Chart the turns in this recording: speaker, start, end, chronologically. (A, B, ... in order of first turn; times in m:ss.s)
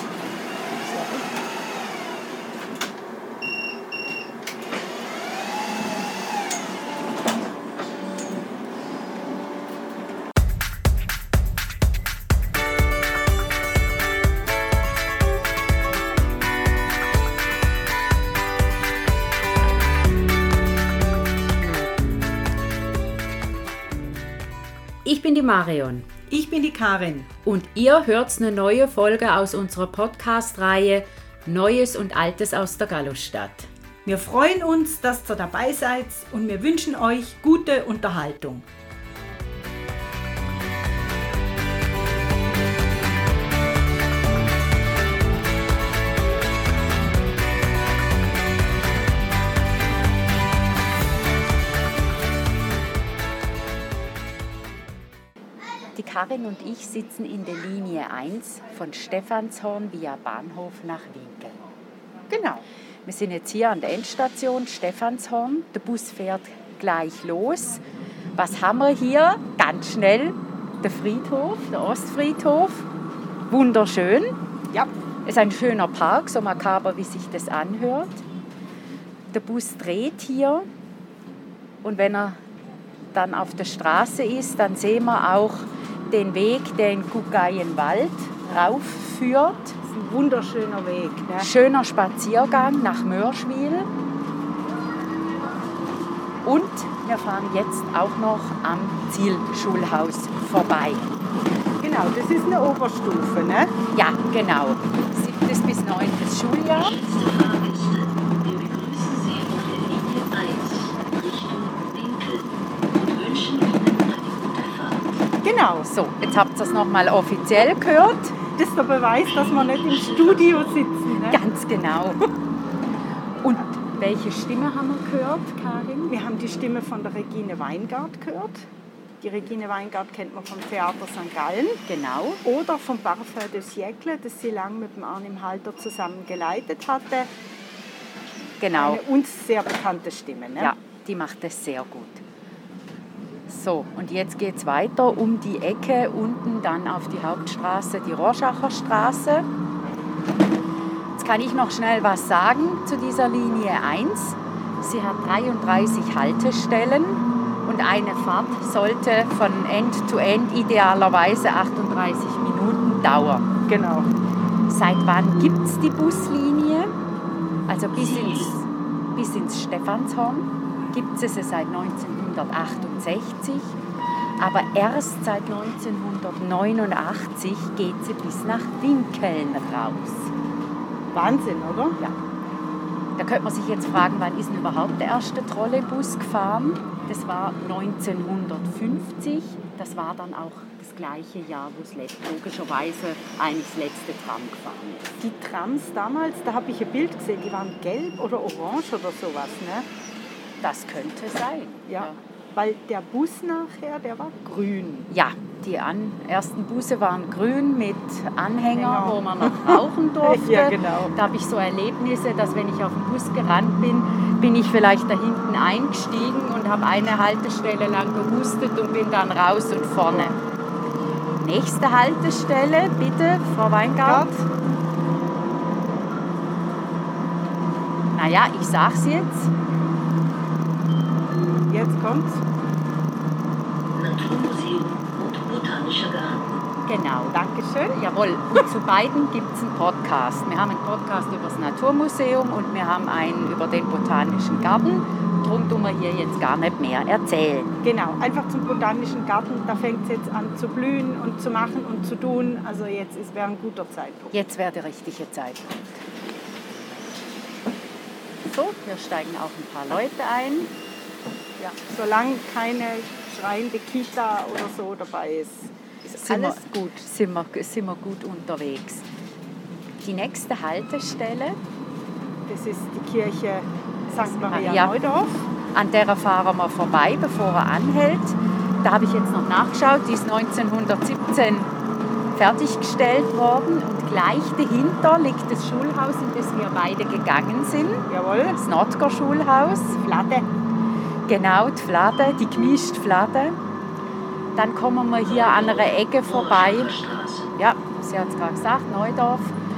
0:00.6-0:01.3 A
0:25.0-0:26.1 B
0:26.3-0:27.3 A
0:27.4-0:33.7 B
0:34.0-0:38.6 A
0:55.9-1:01.6 B
1:02.3-1:02.6 A
1:03.0-1:07.8 B
1:08.4-1:12.9 B
1:13.5-1:14.3 B
1:15.2-1:18.2 B
1:19.3-1:20.6 B
1:21.8-1:22.4 B
1:23.1-1:29.8 B
1:29.9-1:31.5 A
1:31.4-1:33.9 B
1:36.4-1:41.1 B
1:41.8-1:43.7 A
1:43.9-1:47.0 B
1:46.7-1:55.1 C
1:55.4-1:55.9 A
1:55.8-1:58.4 B
1:58.5-2:01.4 A
1:59.2-2:00.8 C
2:01.2-2:02.3 B
2:03.4-2:06.1 B
2:06.1-2:08.6 A
2:09.2-2:11.8 A
2:11.8-2:12.4 B
2:12.4-2:17.3 A
2:18.6-2:19.0 B
2:18.7-2:20.7 A
2:20.6-2:22.2 B
2:23.5-2:29.5 B
2:31.2-2:43.5 B
2:43.7-2:44.1 A
2:44.7-2:46.9 B
2:47.7-2:53.8 B
2:47.9-2:48.5 C
2:54.4-3:00.3 B
3:01.1-3:02.0 A
3:03.2-3:15.1 B
3:15.2-3:19.9 A
3:20.6-3:22.2 B
3:21.9-3:25.1 A
3:25.1-3:40.4 B
3:28.7-3:31.1 A
3:40.1-3:40.4 A
3:41.4-3:44.3 B
3:44.0-3:44.4 A
3:48.1-3:49.5 B
3:51.7-3:52.4 A
3:53.9-3:56.5 C
3:56.8-4:07.8 B
3:57.3-3:58.0 A
4:07.8-4:14.3 A
4:14.3-4:16.0 B
4:18.4-4:20.7 B
4:21.6-4:27.0 A
4:26.2-4:29.1 B
4:30.0-4:31.6 B
4:32.5-4:35.5 A
4:34.2-4:34.9 B
4:35.7-4:41.7 B
4:42.3-4:50.0 B
4:48.1-4:48.6 A
4:49.9-4:50.5 A
4:51.3-4:53.6 B
4:54.6-4:57.0 B
4:55.3-4:57.5 C
4:57.6-4:59.6 B